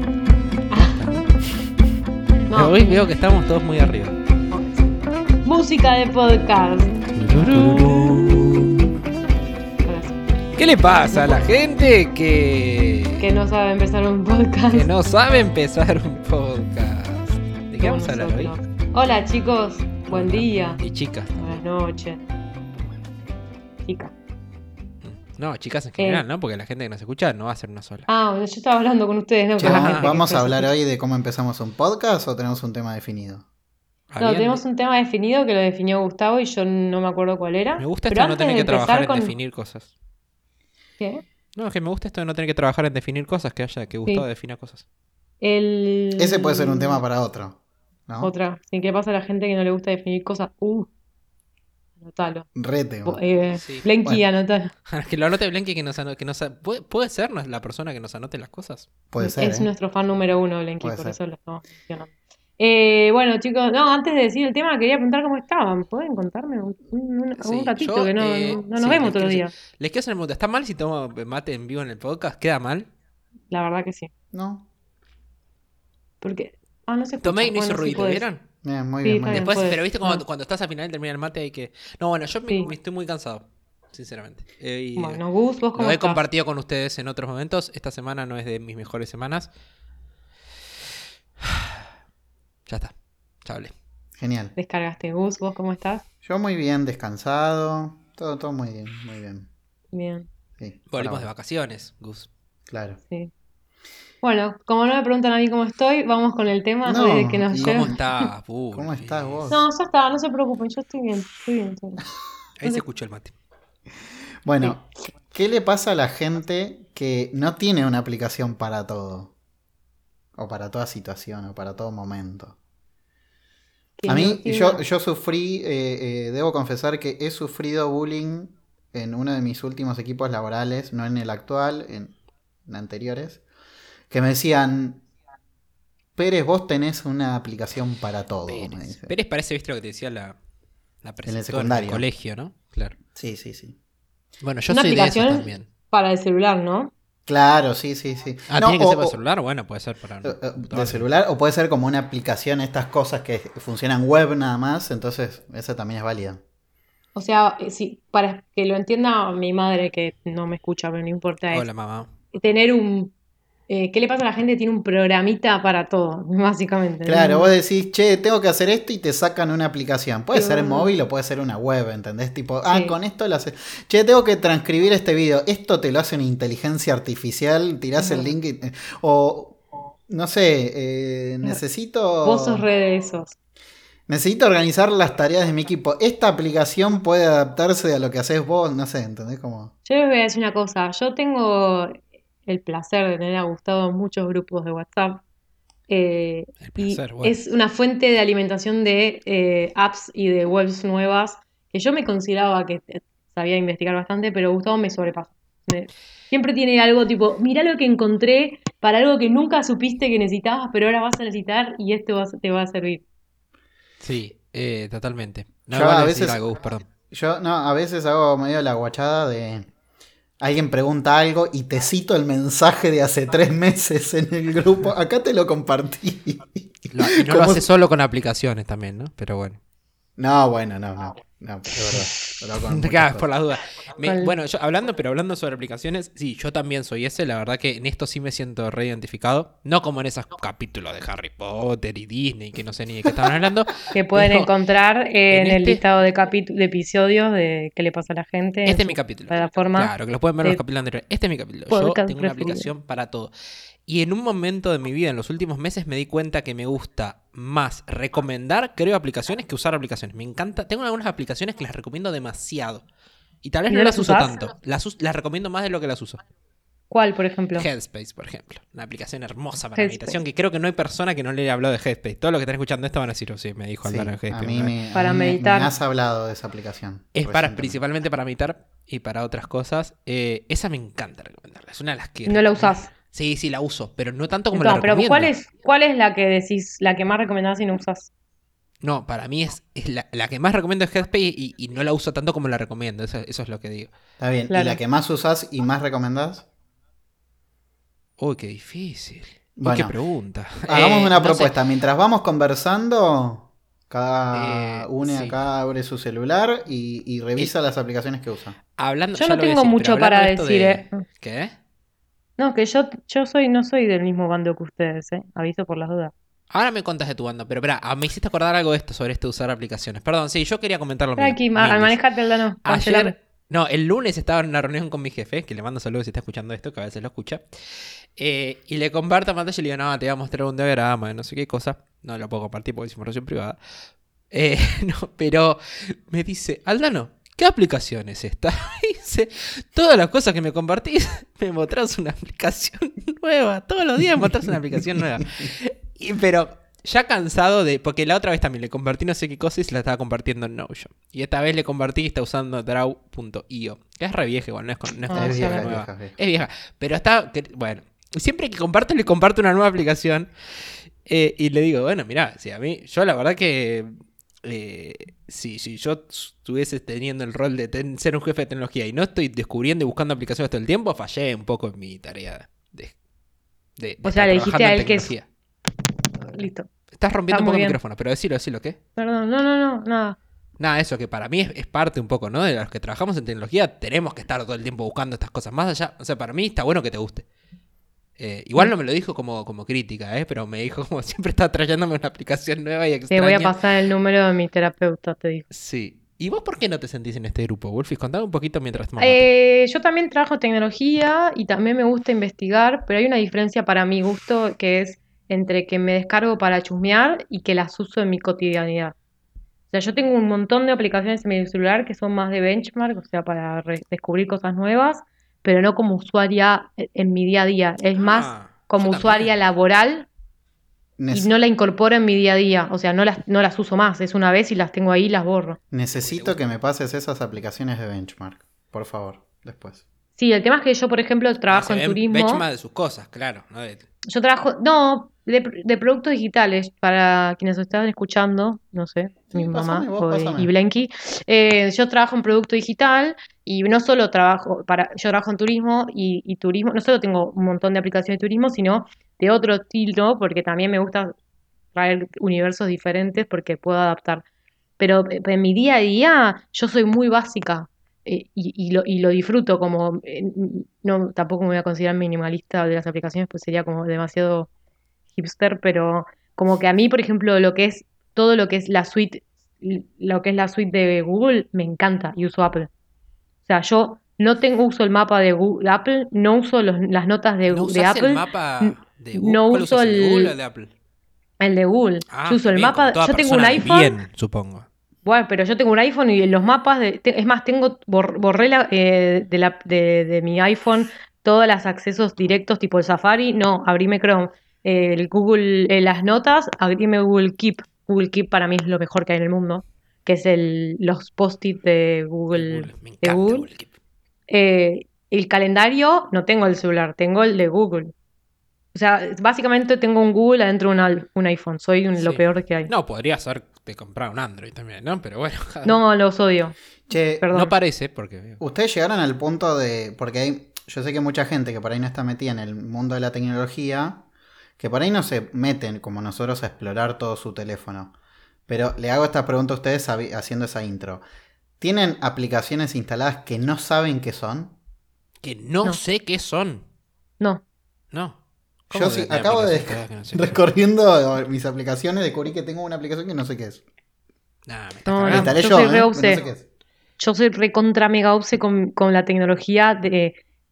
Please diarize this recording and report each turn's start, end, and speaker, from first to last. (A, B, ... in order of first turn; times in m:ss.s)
0:00.7-0:01.0 A
0:00.8-0:01.2 B
0:02.5-0:03.1 A
0:02.5-0:04.2 B
0:04.5-0:04.9 A
0:05.4-0:07.0 A
0:07.2-0:08.8 B
0:09.9-0:10.2 A
0:10.6-0:13.2 B
0:13.2-0:14.9 A
0:14.7-0:18.5 B
0:17.8-0:20.8 A
0:20.1-0:21.6 B
0:21.4-0:22.2 A
0:23.9-0:24.1 A
0:25.0-0:28.1 B
0:26.0-0:26.2 A
0:28.1-0:30.7 A
0:29.6-0:33.4 C
0:29.6-0:30.1 B
0:34.1-0:34.6 B
0:34.2-0:39.3 A
0:37.8-0:39.9 B
0:41.6-0:44.8 B
0:45.4-0:47.0 A
0:46.2-0:48.3 C
0:48.2-0:50.9 A
0:52.0-0:52.5 A
0:52.6-0:53.2 C
0:53.0-0:54.7 A
0:53.5-0:53.9 B
0:54.9-0:58.9 B
0:59.1-0:59.7 C
0:59.2-1:09.5 A
1:00.8-1:01.2 C
1:07.4-1:12.9 B
1:13.5-1:14.1 A
1:14.3-1:14.6 C
1:16.2-1:18.2 A
1:17.2-1:18.4 B
1:18.6-1:19.5 C
1:19.0-1:20.2 A
1:19.3-1:25.2 B
1:25.0-1:26.2 A
1:25.7-1:29.5 B
1:31.4-1:31.8 B
1:32.7-1:32.9 B
1:33.4-1:33.7 B
1:34.2-1:34.6 C
1:34.6-1:36.0 A
1:36.2-1:39.5 C
1:39.9-1:40.3 A
1:40.6-1:41.3 C
1:40.9-1:42.3 B
1:42.7-1:43.0 C
1:44.2-1:48.3 A
1:46.8-1:48.0 C
1:47.6-1:49.5 B
1:48.7-1:49.6 C
1:49.5-1:52.0 A
1:52.6-1:53.4 B
1:54.4-1:59.3 C
2:00.4-2:02.6 C
2:04.0-2:04.8 A
2:04.1-2:12.1 C
2:12.7-2:13.4 C
2:14.1-2:15.0 C
2:16.2-2:19.1 C
2:18.5-2:20.4 B
2:21.0-2:23.0 B
2:21.3-2:22.0 C
2:23.2-2:23.8 C
2:24.4-2:25.7 B
2:24.7-2:26.9 A
2:27.3-2:29.2 C
2:28.5-2:31.0 B
2:30.2-2:36.4 C
2:37.2-2:41.7 A
2:41.5-2:42.1 B
2:42.3-2:43.1 A
2:43.7-2:47.5 A
2:47.1-3:02.6 C
2:50.3-2:50.9 A
2:52.7-2:53.0 A
2:58.0-2:58.3 A
3:02.2-3:03.4 A
3:04.1-3:09.7 C
3:09.8-3:15.2 A
3:15.9-3:33.0 A
3:16.6-3:17.4 B
3:34.0-3:36.9 B
3:35.7-3:36.4 C
3:37.1-3:39.7 C
3:40.4-3:47.6 C
3:46.9-3:49.6 B
3:50.2-3:53.2 C
3:52.4-4:04.5 B
3:54.0-3:54.4 A
4:03.9-4:10.6 A
4:05.3-4:05.8 B
4:08.6-4:13.3 B
4:11.7-4:12.7 A
4:13.9-4:22.8 B
4:23.4-4:26.2 B
4:23.7-4:24.4 A
4:26.9-4:27.7 A
4:27.6-4:34.8 B
4:29.8-4:30.2 A
4:33.8-4:37.8 C
4:34.9-4:35.7 A
4:37.1-4:45.3 B
4:42.3-4:42.9 A
4:44.5-4:48.1 A
4:48.8-4:53.9 B
4:54.2-4:56.5 C
4:54.5-4:54.8 A
4:58.2-5:01.6 B
4:59.6-5:00.0 C
5:00.7-5:08.6 C
5:04.3-5:05.4 B
5:08.8-5:11.5 B
5:09.2-5:11.0 A
5:12.4-5:16.1 A
5:16.5-5:22.0 B
5:21.2-5:23.1 A
5:22.6-5:33.6 B
5:34.3-6:00.3 B
5:55.1-5:55.7 A
5:55.1-5:56.2 C
6:01.0-6:03.9 B
6:04.4-6:12.9 B
6:13.8-6:15.3 B
6:14.0-6:15.1 A
6:16.3-6:16.7 A
6:16.9-6:18.8 B
6:17.3-6:17.8 A
6:19.0-6:20.2 A
6:20.6-6:27.3 B
6:28.2-6:33.6 B
6:33.1-6:35.4 A
6:35.5-6:39.2 B
6:39.0-6:49.0 A
6:49.7-7:00.1 A
6:58.0-6:59.3 B
7:01.0-7:01.3 C
7:01.1-7:05.6 A
7:05.7-7:09.8 C
7:06.0-7:06.4 B
7:10.2-7:12.4 A
7:11.5-7:13.8 B
7:14.1-7:31.2 A
7:19.3-7:20.5 C
7:31.7-7:34.2 A
7:34.8-7:44.5 A
7:45.2-7:52.7 A
7:53.5-8:00.3 A
7:57.5-8:00.7 B
8:01.4-8:04.0 A
8:02.1-8:04.7 B
8:05.0-8:23.5 A
8:22.3-8:23.7 B
8:24.3-8:27.9 A
8:28.7-8:32.7 A
8:32.0-8:35.8 B
8:35.6-8:36.6 A
8:36.9-8:37.2 C
8:37.2-8:37.5 A
8:37.3-8:38.4 B
8:38.4-8:44.0 C
8:44.6-8:47.9 C
8:48.5-8:51.0 C
8:51.6-8:54.5 C
8:55.2-8:56.6 B
8:57.9-8:58.2 B
8:58.7-9:00.4 B
8:58.7-9:03.6 C
9:04.5-9:05.4 B
9:04.9-9:06.2 A
9:05.1-9:06.4 C
9:07.0-9:10.2 A